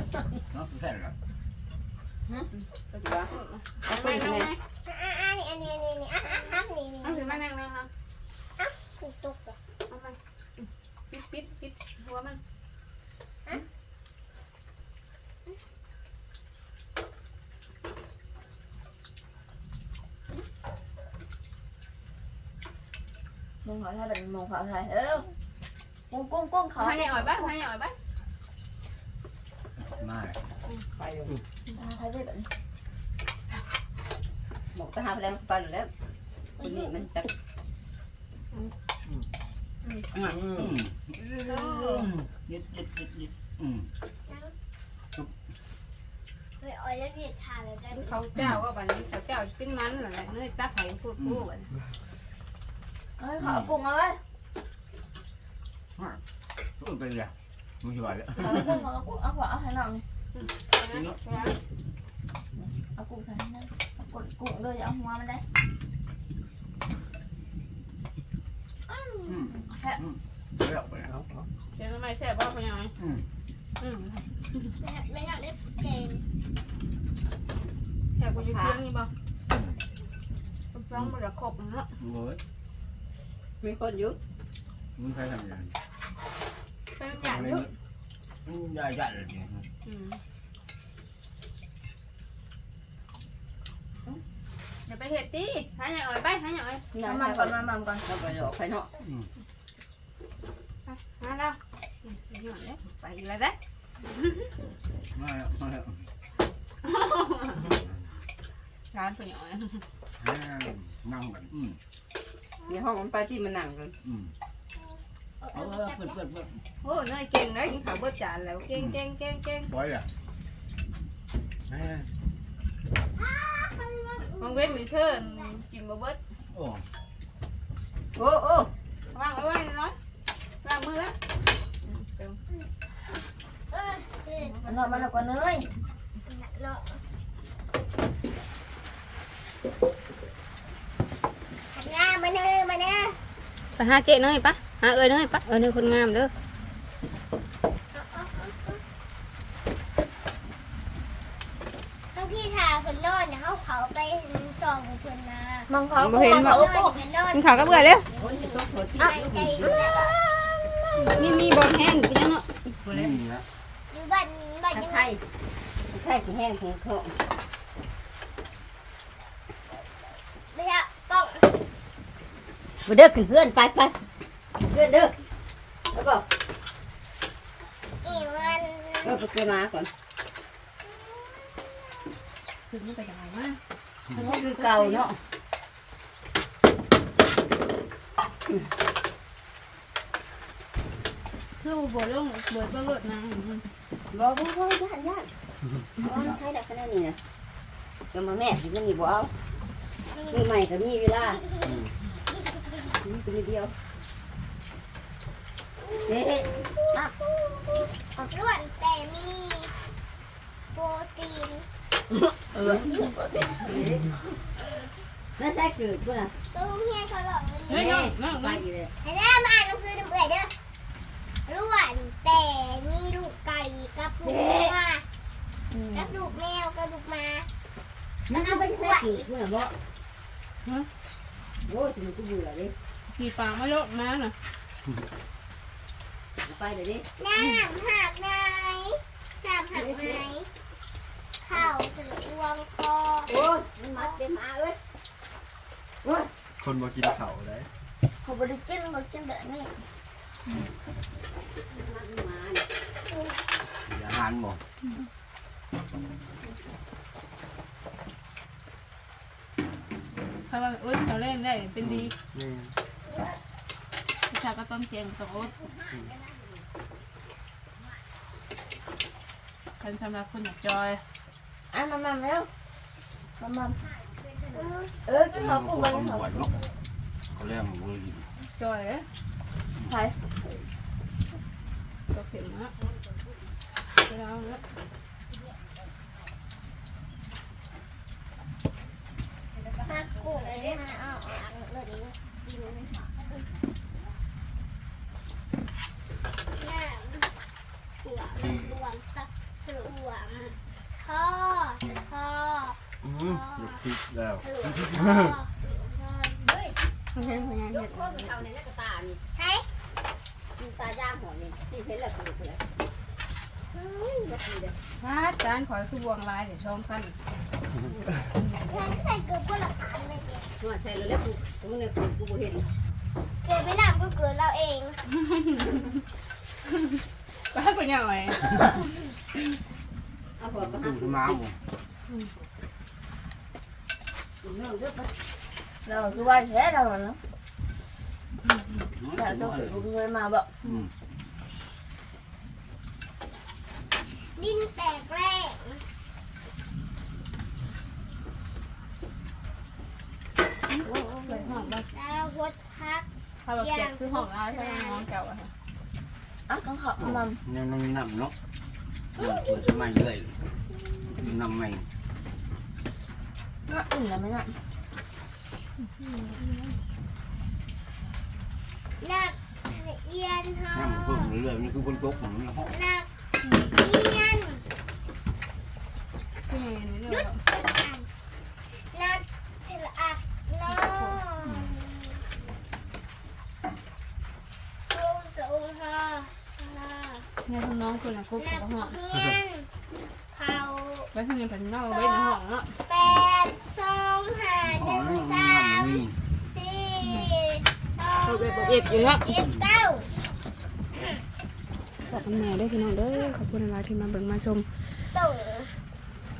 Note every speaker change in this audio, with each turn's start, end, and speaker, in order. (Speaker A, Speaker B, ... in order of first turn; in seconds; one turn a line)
Speaker A: 0.5-1.1
Speaker B: 2.5-4.6
Speaker C: 3.0-3.3
Speaker C: 3.8-4.5
Speaker D: 4.8-7.4
Speaker B: 7.0-7.9
Speaker D: 8.6-9.6
Speaker B: 9.9-12.4
Speaker E: 23.6-25.3
Speaker E: 26.1-27.5
Speaker B: 26.8-27.9
Speaker A: 29.8-30.4
Speaker C: 30.9-31.4
Speaker E: 31.7-32.5
Speaker C: 34.7-35.9
Speaker D: 36.6-37.0
Speaker C: 36.6-37.3
Speaker B: 39.8-40.1
Speaker A: 40.2-43.9
Speaker B: 41.4-42.1
Speaker D: 44.3-44.5
Speaker D: 46.6-48.1
Speaker B: 47.9-51.7
Speaker A: 48.3-48.6
Speaker A: 51.2-51.5
Speaker E: 53.2-54.2
Speaker A: 53.4-53.7
Speaker A: 56.8-58.8
Speaker E: 58.4-60.0
Speaker B: 60.3-61.6
Speaker A: 60.9-61.2
Speaker E: 62.6-65.4
Speaker E: 68.9-70.0
Speaker A: 69.3-71.2
Speaker F: 71.1-71.4
Speaker B: 71.7-72.9
Speaker A: 73.0-73.2
Speaker B: 73.8-74.7
Speaker D: 74.8-76.2
Speaker B: 78.2-79.1
Speaker C: 78.3-78.8
Speaker A: 79.5-79.8
Speaker B: 80.7-81.9
Speaker A: 82.0-82.4
Speaker C: 83.6-84.2
Speaker A: 85.0-85.7
Speaker B: 86.9-87.7
Speaker A: 87.2-87.7
Speaker A: 88.4-89.7
Speaker B: 89.8-90.2
Speaker B: 94.8-96.8
Speaker C: 96.9-98.9
Speaker E: 97.0-98.0
Speaker A: 99.0-99.3
Speaker B: 100.8-103.6
Speaker A: 105.1-106.1
Speaker B: 106.8-107.6
Speaker B: 108.9-109.8
Speaker A: 110.2-111.8
Speaker C: 112.7-113.9
Speaker A: 114.0-114.3
Speaker D: 114.8-116.2
Speaker A: 115.5-116.6
Speaker B: 116.8-119.7
Speaker A: 119.7-120.1
Speaker A: 121.7-122.1
Speaker D: 123.1-125.6
Speaker B: 124.4-126.2
Speaker A: 126.5-126.8
Speaker C: 128.1-128.7
Speaker B: 129.1-129.9
Speaker B: 130.6-131.1
Speaker B: 131.9-132.4
Speaker D: 133.7-134.6
Speaker B: 134.4-135.1
Speaker E: 134.6-135.7
Speaker D: 136.2-137.0
Speaker D: 141.7-143.2
Speaker B: 143.8-146.3
Speaker D: 147.9-148.8
Speaker D: 152.1-159.9
Speaker E: 155.7-157.0
Speaker B: 156.0-156.7
Speaker B: 157.3-158.1
Speaker E: 157.6-158.0
Speaker C: 158.2-160.1
Speaker A: 160.9-161.5
Speaker B: 161.1-163.2
Speaker A: 162.8-163.4
Speaker D: 163.9-165.2
Speaker C: 164.7-165.2
Speaker C: 165.9-167.2
Speaker D: 170.5-171.6
Speaker C: 172.8-174.0
Speaker C: 174.6-175.2
Speaker C: 175.9-176.2
Speaker D: 178.0-179.2
Speaker B: 178.1-178.5
Speaker C: 179.0-179.9
Speaker D: 180.8-182.1
Speaker B: 182.7-183.6
Speaker C: 184.1-185.2
Speaker B: 184.1-185.1
Speaker B: 191.6-193.6
Speaker C: 194.1-195.3
Speaker C: 196.0-197.2
Speaker C: 198.1-199.3
Speaker D: 200.1-200.4
Speaker C: 200.3-201.5
Speaker C: 203.0-203.7
Speaker C: 206.1-206.5
Speaker E: 206.7-207.2
Speaker D: 208.0-209.7
Speaker D: 210.7-211.7
Speaker E: 212.5-213.8
Speaker C: 213.6-214.2
Speaker C: 215.4-216.3
Speaker D: 216.5-217.9
Speaker B: 217.7-218.6
Speaker C: 217.7-218.9
Speaker D: 219.0-220.5
Speaker D: 221.4-225.0
Speaker C: 224.2-224.8
Speaker E: 225.7-226.1
Speaker D: 225.9-227.5
Speaker D: 228.3-229.3
Speaker C: 228.3-229.7
Speaker C: 231.6-232.7
Speaker B: 233.1-234.3
Speaker C: 236.4-237.1
Speaker D: 237.2-240.5
Speaker C: 239.7-240.2
Speaker D: 241.4-243.3
Speaker C: 243.3-244.8
Speaker D: 243.9-244.2
Speaker C: 246.0-246.3
Speaker F: 246.6-247.7
Speaker E: 248.2-249.7
Speaker C: 251.7-252.6
Speaker A: 253.8-254.6
Speaker B: 260.5-262.1
Speaker F: 262.3-262.7
Speaker B: 264.3-265.6
Speaker C: 265.9-266.4
Speaker B: 269.8-271.0
Speaker E: 271.7-272.5
Speaker E: 273.4-273.8
Speaker D: 274.5-274.9
Speaker E: 275.0-276.4
Speaker A: 275.3-276.7
Speaker A: 277.3-278.3
Speaker B: 278.5-279.1
Speaker E: 279.8-280.2
Speaker B: 282.1-282.7
Speaker B: 284.0-284.6
Speaker C: 289.5-290.8
Speaker D: 289.8-293.4
Speaker D: 296.5-297.3
Speaker D: 298.0-303.8
Speaker F: 303.0-304.4
Speaker D: 304.4-306.5
Speaker F: 305.0-305.3
Speaker C: 306.4-309.2
Speaker B: 307.1-308.3
Speaker D: 309.3-309.7
Speaker C: 310.6-312.6
Speaker D: 313.7-314.4
Speaker C: 314.2-314.7
Speaker B: 315.0-317.1
Speaker D: 318.6-320.5
Speaker C: 320.6-322.7
Speaker D: 323.4-325.0
Speaker B: 325.3-325.9
Speaker B: 326.9-328.9
Speaker C: 330.4-331.4
Speaker A: 330.6-331.6
Speaker C: 334.4-335.1
Speaker E: 335.8-337.2
Speaker A: 338.9-339.8
Speaker E: 339.1-340.5
Speaker D: 344.2-345.8
Speaker B: 350.7-351.9
Speaker E: 350.8-351.5
Speaker D: 351.9-355.1
Speaker B: 353.4-355.5
Speaker E: 356.5-357.4
Speaker A: 357.0-358.3
Speaker D: 359.1-360.0
Speaker A: 359.1-360.4
Speaker A: 361.1-361.9
Speaker E: 363.7-364.6
Speaker B: 366.0-366.8
Speaker D: 369.0-371.4
Speaker A: 370.7-372.7
Speaker D: 372.7-373.1
Speaker D: 373.6-374.6
Speaker B: 376.5-377.4
Speaker D: 377.1-378.1
Speaker D: 378.7-382.2
Speaker B: 380.7-381.2
Speaker A: 381.4-381.8
Speaker D: 384.9-387.3
Speaker B: 387.4-389.0
Speaker D: 388.4-389.7
Speaker D: 390.3-391.1
Speaker B: 391.1-392.7
Speaker D: 391.8-400.1
Speaker A: 394.6-396.1
Speaker B: 397.0-397.3
Speaker B: 398.2-399.3
Speaker D: 400.9-401.2
Speaker B: 402.1-404.6
Speaker D: 405.1-405.8